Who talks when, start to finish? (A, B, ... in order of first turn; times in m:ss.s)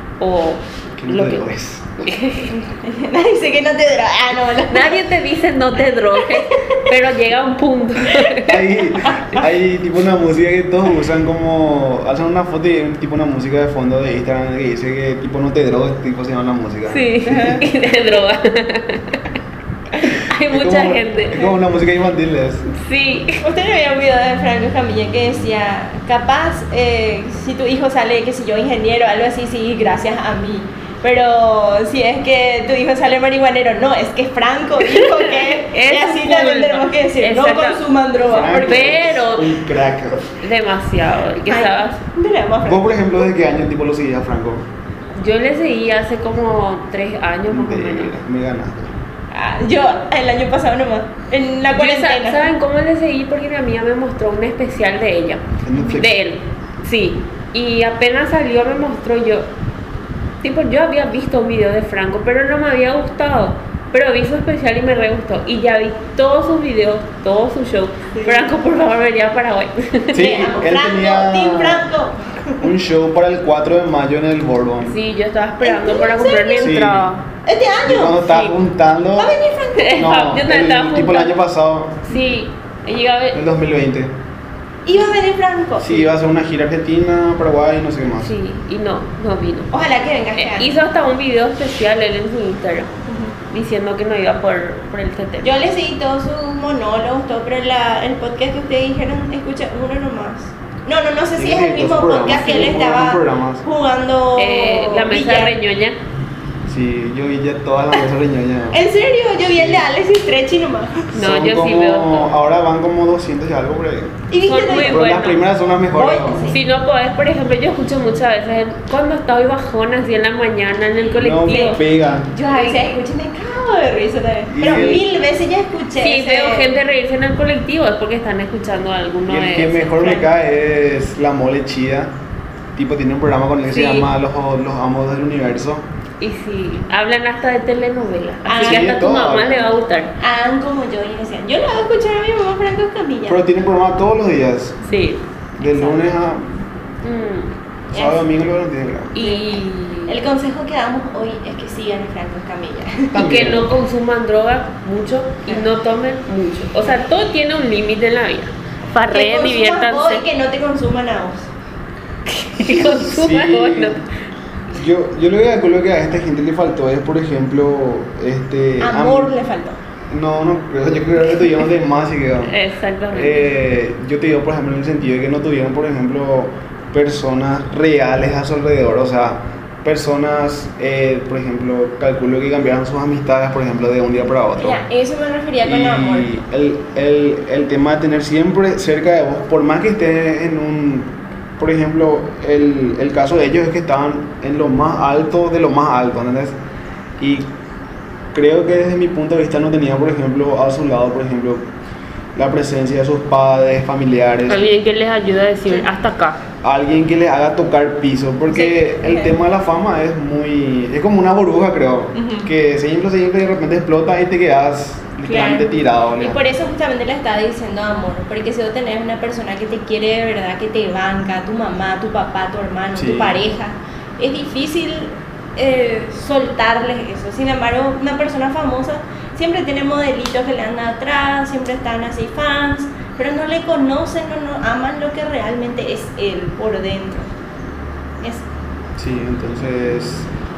0:00.2-0:01.4 A
0:00.9-0:02.0 B
0:02.0-0:02.5 A
0:02.5-0:05.1 C
0:04.7-0:09.1 A
0:06.1-0:06.9 C
0:08.4-0:17.6 B
0:16.9-0:19.2 A
0:17.2-0:17.6 C
0:20.0-0:21.5 A
0:20.0-0:22.7 B
0:22.7-0:23.4 A
0:23.4-0:39.1 C
0:34.8-0:37.8 A
0:38.2-0:40.3 B
0:38.6-0:39.5 A
0:40.3-0:42.0 A
0:41.4-0:43.3 C
0:42.6-0:44.6 B
0:45.2-0:48.1 A
0:47.5-0:49.0 B
0:49.3-0:52.5 C
0:51.7-0:59.5 A
0:55.6-0:56.1 B
1:00.4-1:10.2 A
1:08.1-1:08.5 C
1:10.1-1:11.9 B
1:10.1-1:12.7 C
1:12.6-1:15.0 B
1:14.8-1:17.2 A
1:15.6-1:16.8 C
1:16.6-1:17.1 B
1:17.4-1:18.2 C
1:17.8-1:19.4 B
1:18.2-1:18.5 A
1:19.2-1:20.1 C
1:19.7-1:21.4 A
1:20.0-1:22.1 B
1:22.1-1:23.4 A
1:23.3-1:24.1 B
1:24.8-1:26.1 C
1:25.8-1:28.3 B
1:28.2-1:29.7 A
1:29.7-1:30.8 C
1:30.4-1:32.9 A
1:33.1-1:33.3 C
1:33.5-1:35.6 A
1:35.4-1:45.6 C
1:41.4-1:43.6 B
1:44.4-1:46.0 A
1:46.6-1:48.8 B
1:48.7-1:51.1 C
1:49.4-1:49.8 B
1:51.1-1:52.3 A
1:51.1-1:56.5 B
1:54.3-1:55.2 C
1:54.4-1:55.4 A
1:55.9-1:56.6 C
1:56.4-2:01.8 A
2:01.2-2:02.3 B
2:01.4-2:06.7 C
2:02.5-2:03.0 A
2:04.5-2:05.0 B
2:04.6-2:05.0 A
2:06.0-2:10.2 A
2:09.2-2:12.1 B
2:12.7-2:15.8 B
2:13.7-2:14.1 A
2:16.2-2:20.1 A
2:18.4-2:18.9 C
2:18.6-2:19.7 B
2:20.2-2:23.4 C
2:23.3-2:24.8 B
2:24.8-2:25.9 A
2:25.6-2:26.5 B
2:27.0-2:27.5 A
2:27.9-2:29.1 B
2:27.9-2:28.3 C
2:29.1-2:30.2 A
2:29.1-2:33.2 C
2:33.1-2:33.7 B
2:33.1-2:40.2 A
2:39.1-2:41.5 C
2:42.3-2:44.0 A
2:42.6-2:44.0 B
2:44.7-2:49.3 B
2:48.8-2:49.8 C
2:50.1-2:52.5 B
2:52.4-2:53.4 A
2:53.1-3:04.8 B
3:04.6-3:06.3 C
3:05.6-3:16.5 B
3:17.2-3:17.5 B
3:18.3-3:21.7 B
3:22.3-3:24.6 B
3:24.5-3:26.4 A
3:26.6-3:36.4 B
3:28.5-3:29.4 C
3:32.1-3:32.5 C
3:35.2-3:57.3 C
3:42.9-3:43.4 B
3:59.0-4:00.3 B